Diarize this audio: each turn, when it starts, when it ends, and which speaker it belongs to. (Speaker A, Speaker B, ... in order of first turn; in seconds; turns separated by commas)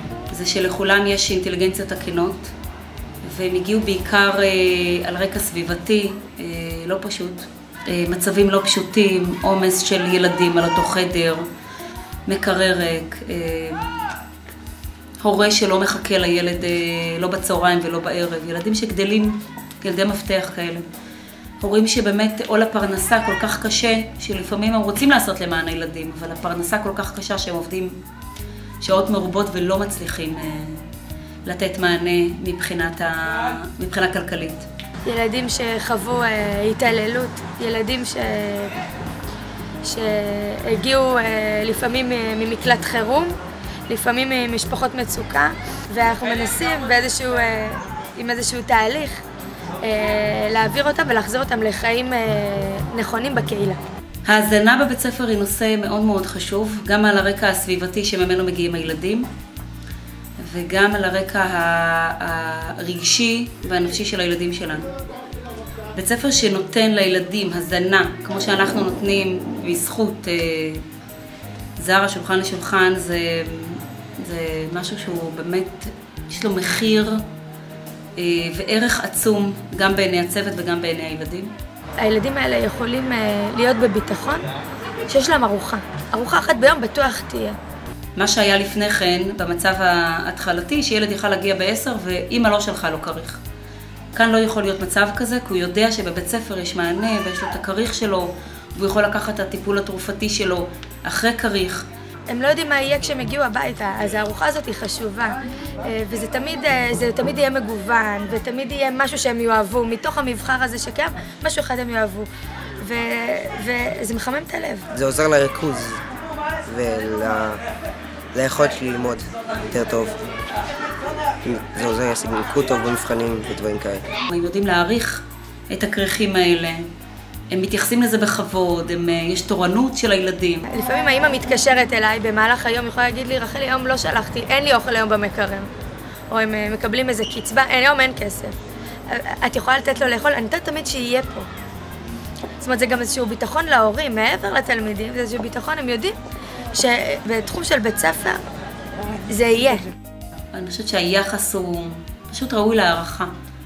Speaker A: 0.3-2.5, Speaker A: 3.2-11.5, Speaker A: 12.3-14.0, Speaker A: 15.2-20.9, Speaker A: 21.6-28.0, Speaker A: 28.8-30.9, Speaker A: 31.4-34.7, Speaker B: 35.0-38.8, Speaker B: 39.8-43.4, Speaker B: 43.9-49.2, Speaker B: 49.8-53.8, Speaker A: 54.3-59.3, Speaker A: 60.4-64.9, Speaker A: 66.0-70.8, Speaker A: 71.8-77.2, Speaker A: 78.2-81.5, Speaker B: 82.0-84.5, Speaker B: 85.1-87.6, Speaker A: 88.2-93.4, Speaker A: 94.1-101.9, Speaker B: 102.3-112.3, Speaker B: 112.8-114.9, Speaker C: 114.9-116.0, Speaker C: 116.7-117.6, Speaker C: 118.3-120.2, Speaker C: 121.4-124.0, Speaker A: 124.3-126.9, Speaker A: 127.5-130.7, Speaker B: 130.7-135.7, Speaker B: 136.3-138.6, Speaker B: 139.1-141.5, Speaker B: 142.6-146.2, Speaker B: 146.7-148.4, Speaker B: 149.3-149.9, Speaker A: 150.5-153.3